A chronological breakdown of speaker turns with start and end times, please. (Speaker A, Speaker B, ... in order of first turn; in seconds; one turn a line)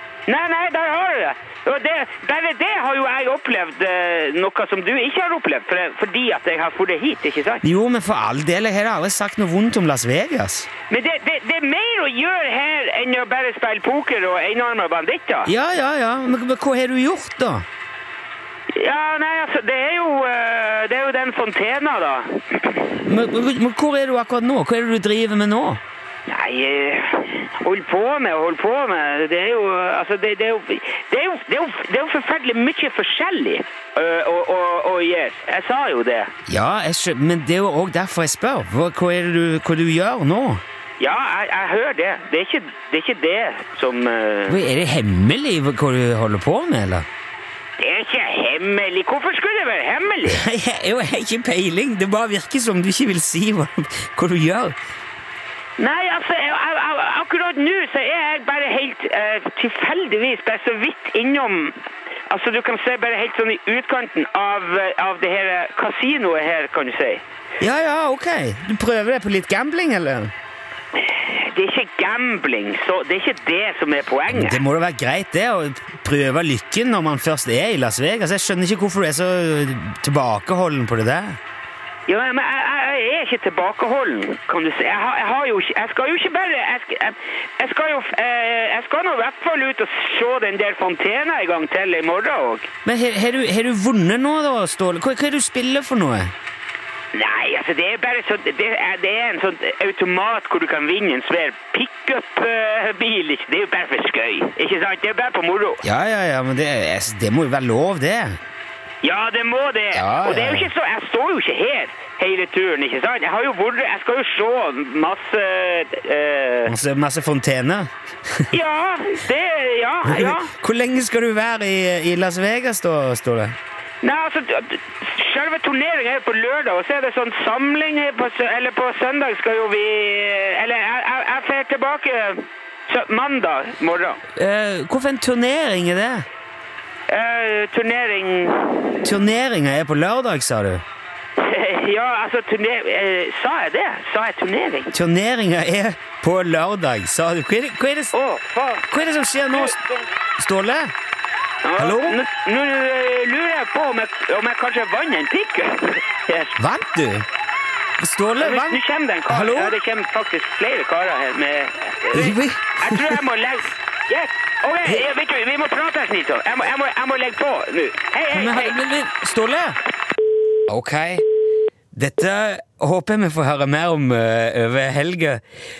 Speaker A: 0.3-7.6
Speaker B: 7.6-10.7
Speaker A: 10.9-15.5
Speaker B: 15.5-17.7
Speaker A: 18.8-23.0
Speaker B: 23.0-25.8
Speaker A: 26.3-36.3
Speaker B: 36.5-40.6
Speaker A: 41.0-44.6
Speaker B: 44.5-47.1
Speaker A: 47.8-50.4
Speaker B: 50.2-54.8
Speaker A: 55.8-61.8
Speaker A: 62.3-67.2
Speaker B: 67.6-70.3
Speaker A: 71.0-74.6
Speaker B: 74.3-81.4
Speaker A: 82.1-92.7
Speaker B: 92.8-96.3
Speaker A: 97.1-105.8
Speaker B: 105.8-108.4
Speaker A: 109.0-116.8
Speaker B: 109.9-110.7
Speaker B: 116.7-118.6
Speaker A: 118.5-120.5
Speaker B: 120.0-123.6
Speaker A: 124.0-134.2
Speaker B: 134.3-136.3
Speaker A: 137.1-139.0
Speaker B: 139.0-140.8
Speaker A: 141.4-144.9
Speaker B: 144.9-148.1
Speaker A: 148.1-148.9
Speaker B: 148.9-149.8
Speaker A: 149.5-150.1
Speaker B: 150.4-150.9
Speaker A: 151.6-156.6
Speaker B: 151.8-152.2
Speaker B: 156.6-157.3
Speaker B: 158.0-159.8
Speaker A: 158.4-168.8
Speaker B: 162.1-163.2
Speaker B: 168.3-169.8
Speaker B: 170.7-171.2
Speaker B: 171.9-175.4